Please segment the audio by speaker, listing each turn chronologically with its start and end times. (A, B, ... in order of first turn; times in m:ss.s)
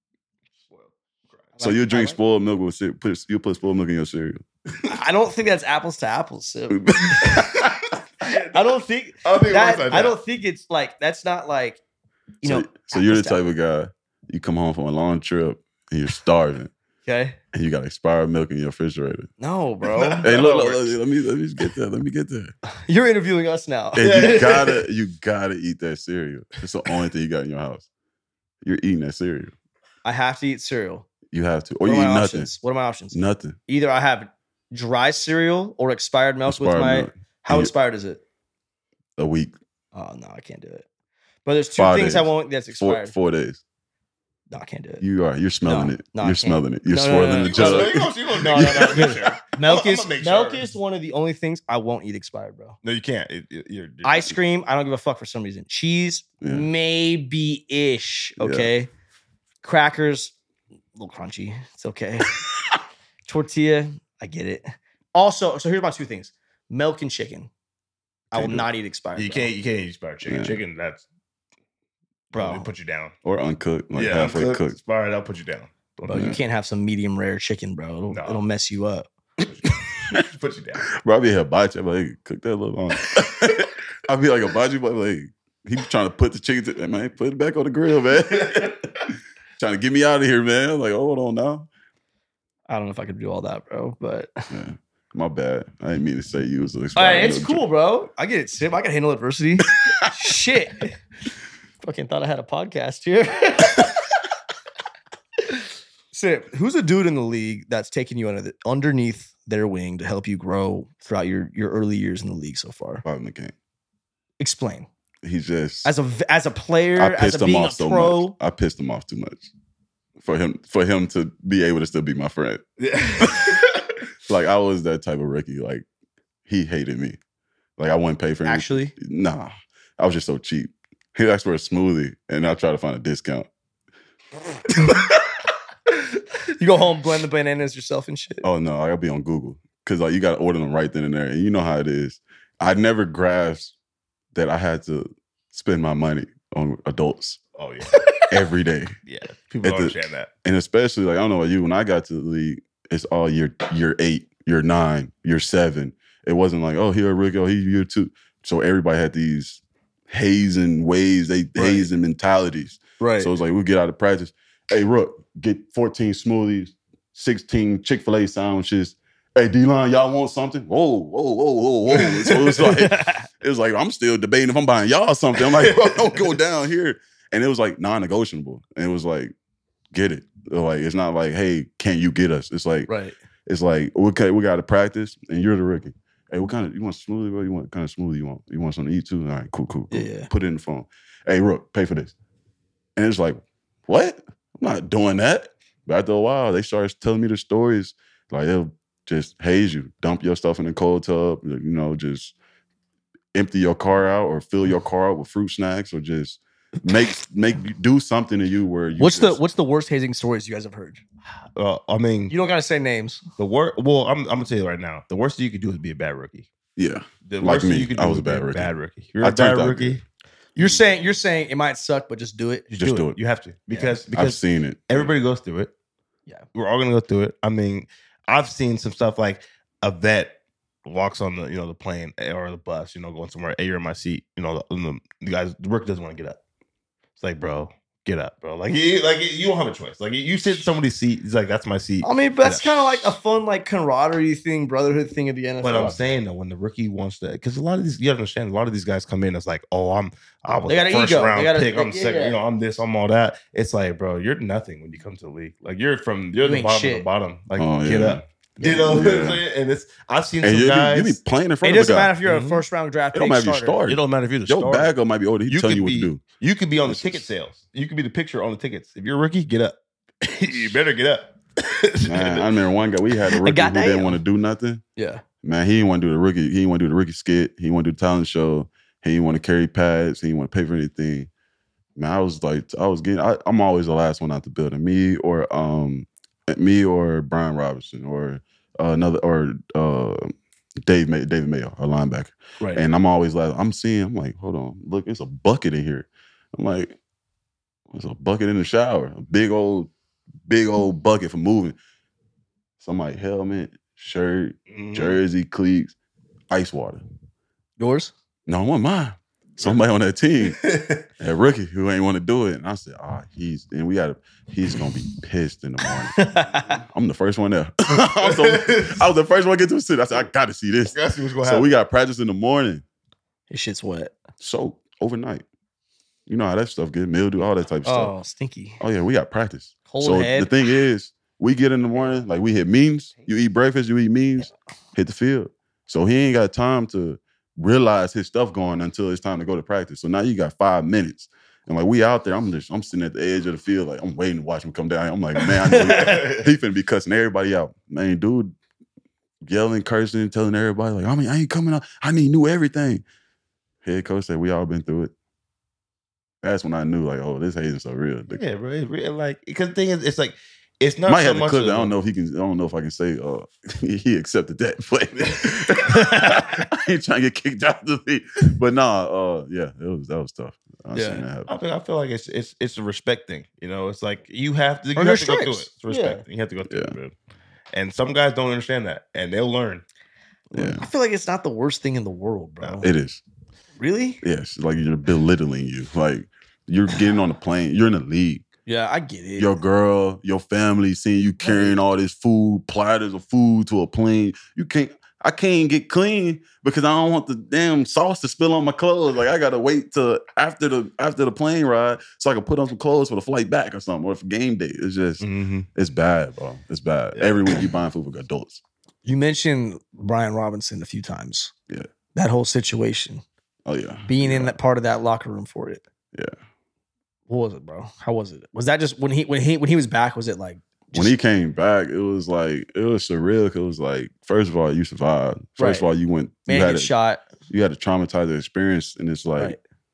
0:00.7-0:01.6 A
0:01.6-0:02.2 B
0:01.6-0:04.4 C
0:04.8-0:07.6 B
0:06.7-0:07.7 C
0:08.2-0:10.2 A
0:08.2-0:11.8 B
0:12.4-0:13.4 B
0:12.4-0:16.7 C
0:17.0-0:17.4 B
0:17.5-0:19.3 C
0:19.4-0:20.8 B
0:19.8-0:20.8 A
0:20.2-0:22.5 C
0:22.9-0:24.7 B
0:24.0-0:27.9 C
0:24.0-0:24.8 A
0:28.6-0:29.5 C
0:30.0-0:31.1 B
0:31.3-0:32.5 C
0:31.8-0:38.2 B
0:33.1-0:33.6 C
0:36.5-0:37.7 C
0:39.2-0:39.5 C
0:39.9-0:40.8 B
0:41.4-0:43.1 B
0:41.8-0:43.6 C
0:44.5-0:45.0 B
0:45.0-0:49.3 C
0:45.6-0:52.8 B
0:47.4-0:50.7 A
0:52.8-0:54.4 A
0:54.0-0:58.9 B
0:56.4-0:56.7 C
0:58.4-0:58.7 C
0:59.6-1:00.3 B
1:01.0-1:02.4 B
1:03.3-1:07.5 B
1:08.3-1:09.5 B
1:08.3-1:08.7 C
1:09.2-1:11.0 A
1:10.2-1:10.6 C
1:12.3-1:13.1 A
1:12.3-1:12.7 B
1:13.2-1:14.8 C
1:13.9-1:16.4 A
1:16.1-1:19.1 B
1:16.1-1:16.4 C
1:18.1-1:18.4 A
1:19.4-1:20.8 A
1:20.9-1:28.9 C
1:28.4-1:28.7 A
1:29.6-1:31.7 C
1:32.7-1:34.5 B
1:34.5-1:37.6 C
1:36.9-1:41.0 B
1:41.8-1:44.0 B
1:46.1-1:53.0 B
1:53.0-1:53.5 C
1:54.4-1:54.9 B
1:55.2-1:55.9 C
1:55.8-1:58.4 B
1:57.0-1:59.5 C
2:00.2-2:02.6 C
2:02.8-2:03.9 A
2:03.2-2:03.6 C
2:04.3-2:05.8 C
2:06.4-2:07.2 C
2:07.8-2:13.5 C
2:08.4-2:08.9 B
2:16.5-2:18.4 B
2:18.4-2:23.7 C
2:24.3-2:27.4 C
2:27.6-2:28.0 A
2:28.0-2:28.2 B
2:28.3-2:29.0 C
2:29.1-2:30.3 A
2:29.6-2:59.3 C
2:41.6-2:41.8 B
2:43.0-2:43.3 B
2:52.4-2:53.2 B
2:55.7-2:56.0 A
2:59.9-3:02.9 C
3:02.9-3:03.2 B
3:03.5-3:12.1 C
3:09.9-3:10.3 B
3:13.0-3:22.3 C
3:23.3-3:29.4 C
3:29.0-3:31.0 B
3:31.5-3:32.3 A
3:32.3-3:33.2 B
3:33.4-3:36.5 A
3:36.8-3:40.0 C
3:37.2-3:40.0 A
3:40.6-3:42.6 B
3:42.7-3:45.7 A
3:42.7-3:43.2 C
3:43.7-3:44.0 B
3:44.1-3:45.1 C
3:46.5-3:56.4 A
3:57.2-4:03.2 A
4:02.0-4:06.0 B
4:05.6-4:21.2 A
4:10.7-4:12.4 B
4:16.4-4:17.0 B
4:17.6-4:19.4 C
4:20.4-4:22.1 C
4:21.6-4:23.8 B
4:22.2-4:22.6 A
4:23.1-4:26.2 C
4:23.9-4:24.9 A
4:25.5-4:32.5 A
4:26.8-4:27.2 C
4:32.0-4:34.8 C
4:33.4-4:34.2 B
4:35.0-4:35.2 B
4:35.4-4:41.3 C
4:42.0-4:50.3 C
4:50.8-4:57.0 C
4:57.9-4:59.9 C
5:00.5-5:01.8 C
5:02.8-5:05.9 C
5:04.7-5:05.2 A
5:06.5-5:07.0 C
5:07.8-5:08.1 B
5:08.5-5:10.6 C
5:10.4-5:11.0 A
5:11.2-5:22.8 C
5:16.1-5:16.8 B
5:18.2-5:19.0 A
5:20.9-5:21.7 A
5:23.5-5:24.1 B
5:24.4-5:25.4 C
5:26.3-5:28.1 C
5:27.8-5:28.8 B
5:28.8-5:48.5 C
5:29.9-5:30.5 B
5:45.6-5:46.3 B
5:46.0-5:46.4 A
5:49.4-5:53.0 C
5:53.8-5:55.1 C
5:56.4-5:58.4 C
5:58.3-6:01.9 A
6:01.0-6:11.5 C
6:05.8-6:06.5 B
6:10.9-6:11.2 B
6:11.5-6:17.1 A
6:15.0-6:16.2 B
6:16.7-6:17.0 C
6:17.7-6:19.8 A
6:20.5-6:20.8 C
6:20.5-6:22.9 B
6:22.8-6:23.2 C
6:23.8-6:24.2 B
6:24.2-6:28.4 C
6:28.7-6:29.5 B
6:29.4-6:48.6 C
6:31.4-6:31.7 B
6:45.2-6:45.7 A
6:47.1-6:47.5 A
6:49.0-6:51.5 B
6:52.1-6:53.2 B
6:53.6-6:54.6 C
6:54.1-6:55.8 B
6:57.3-7:01.1 B
7:00.9-7:06.9 C
7:05.6-7:05.9 B
7:06.5-7:07.2 B
7:07.5-7:09.6 C